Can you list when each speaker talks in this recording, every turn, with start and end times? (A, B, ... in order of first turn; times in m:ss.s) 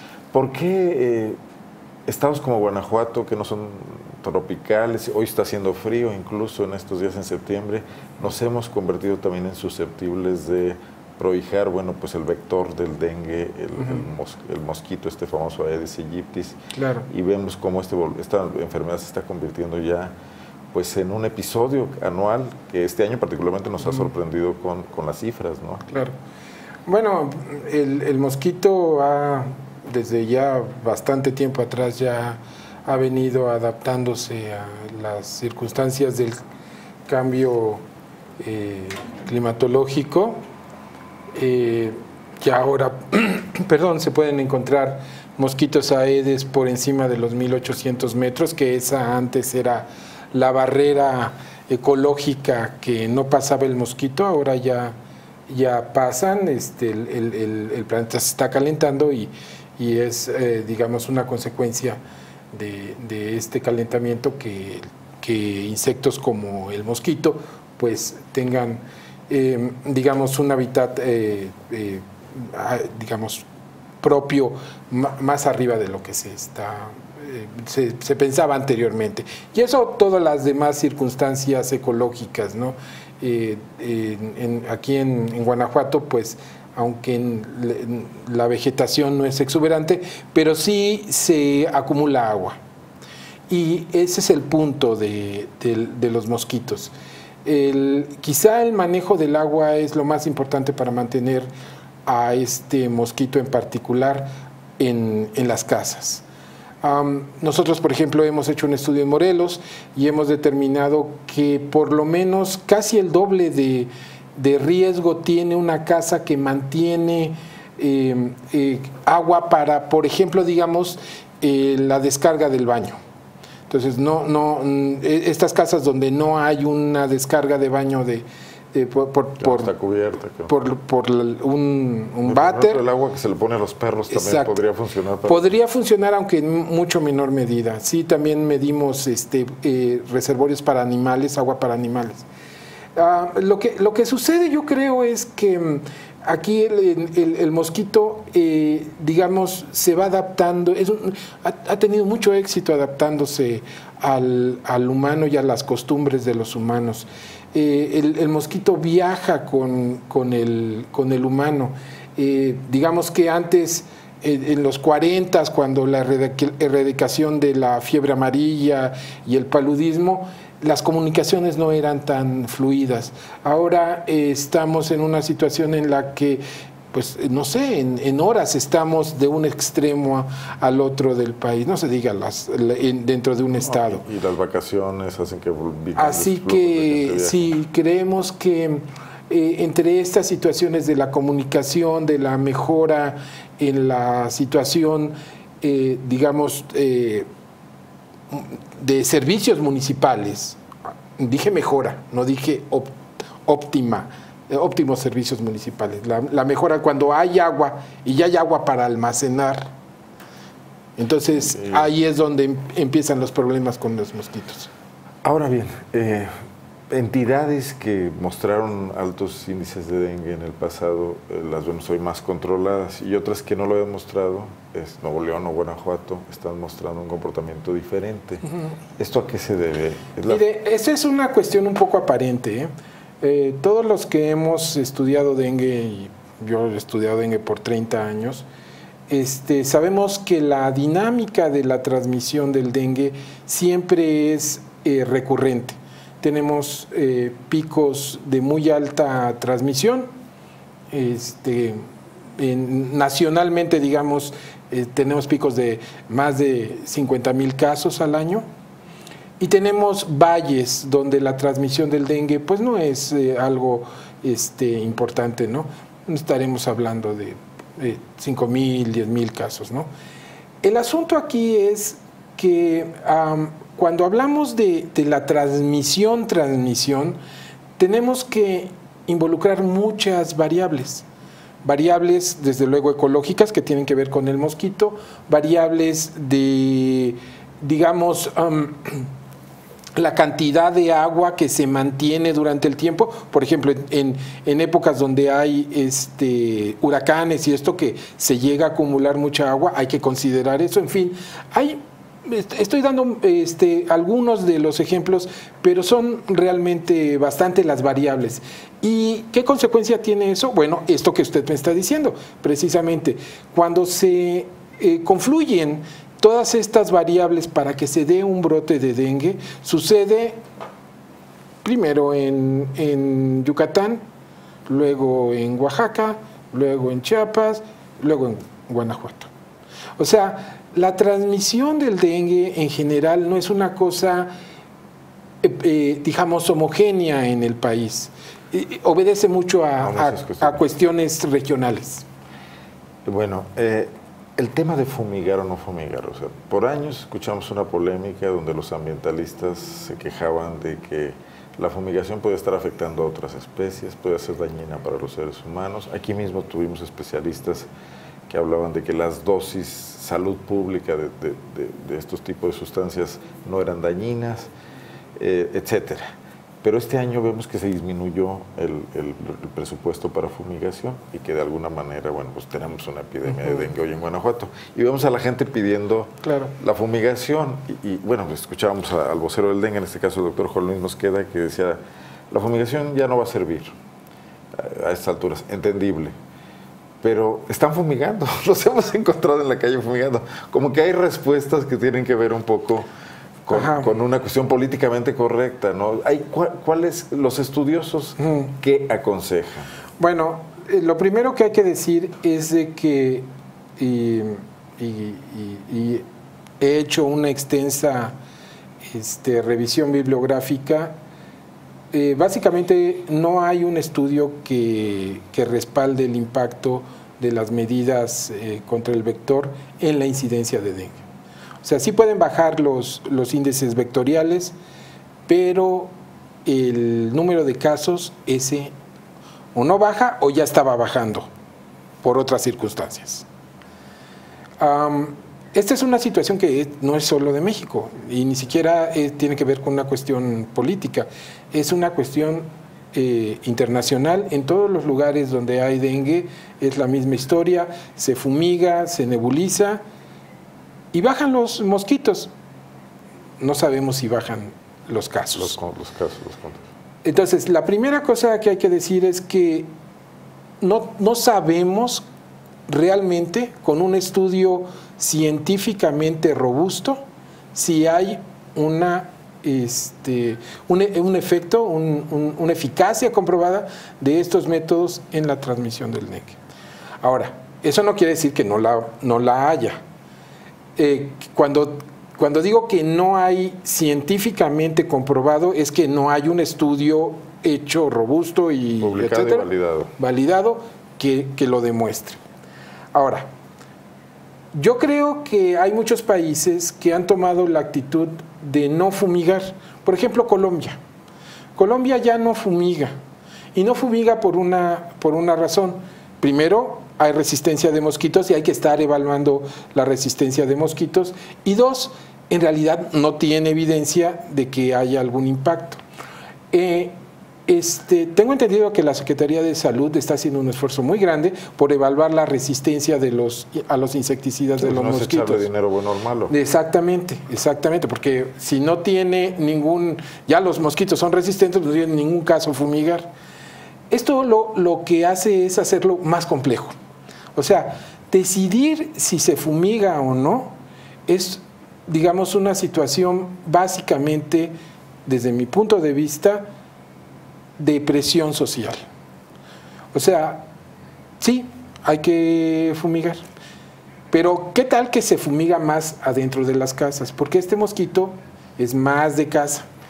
0:00.3-0:01.4 A
0:02.1-0:16.6 A
0:16.7-0:17.1 B
0:17.1-0:20.1 A
0:20.7-0:25.9 A
0:25.9-0:26.1 B
0:26.9-0:36.4 B
0:37.1-0:37.8 B
0:38.4-0:40.4 B
0:41.3-0:55.0 B
0:55.5-1:02.0 B
1:02.5-1:13.4 B
1:14.0-1:32.6 B
1:33.5-1:36.9 B
1:37.4-1:41.5 B
1:42.0-1:46.2 B
1:46.8-2:03.0 B
2:03.7-2:09.7 B
2:09.4-2:10.5 A
2:10.5-2:12.8 B
2:12.2-2:15.5 A
2:14.1-2:14.6 B
2:15.2-2:22.2 B
2:22.9-3:04.0 B
3:03.6-3:07.5 A
3:06.0-3:17.3 B
3:18.3-3:20.6 B
3:21.2-3:22.9 B
3:23.4-3:29.7 B
3:31.0-3:34.7 B
3:31.5-3:31.9 A
3:35.2-3:36.3 A
3:36.9-3:48.4 A
3:49.0-3:50.4 A
3:50.3-3:58.5 B
3:59.1-4:10.1 B
4:10.9-4:11.8 B
4:12.4-4:18.5 B
4:19.4-4:29.9 B
4:30.6-4:37.2 B
4:37.8-4:41.1 B
4:41.6-4:49.1 B
4:50.0-5:20.4 B
5:21.6-5:24.0 B
5:24.7-5:29.3 B
5:30.0-5:34.3 B
5:35.4-5:42.0 B
5:39.8-5:40.6 A
5:43.1-5:57.7 A
5:58.3-6:04.5 A
6:05.2-6:06.1 A
6:06.6-6:21.8 A
6:16.2-6:16.5 B
6:22.3-6:23.7 A
6:24.5-6:26.1 A
6:27.0-6:32.9 A
6:33.5-6:39.7 A
6:33.5-6:33.9 B
6:38.2-6:38.5 B
6:40.0-6:43.3 B
6:43.8-6:46.0 B
6:46.6-6:48.2 B
6:48.8-6:51.0 B
6:51.9-7:01.0 B
7:01.6-7:04.6 B
7:05.3-7:05.9 B
7:06.4-7:08.7 B
7:09.6-7:11.3 B
7:12.0-7:13.2 B
7:14.6-7:29.8 B
7:30.9-7:32.3 B
7:33.4-7:35.6 B
7:35.4-7:36.7 A
7:37.0-7:39.7 B
7:40.6-7:42.0 B
7:42.7-7:47.0 B
7:47.5-7:56.4 B
7:57.0-7:59.8 B
8:00.8-8:09.5 B
8:08.8-8:09.9 A
8:10.0-8:12.2 B
8:12.9-8:13.3 B
8:14.5-8:20.8 B
8:21.6-8:23.0 B
8:23.5-8:35.8 B
8:36.5-8:37.0 B
8:37.5-8:45.5 B
8:44.6-8:46.4 A
8:46.3-8:53.1 B
8:53.9-8:56.8 B
8:57.4-9:04.5 B
9:05.0-9:06.5 B
9:07.6-9:08.9 B
9:09.9-9:10.5 B
9:11.2-9:13.2 B
9:14.1-9:19.6 B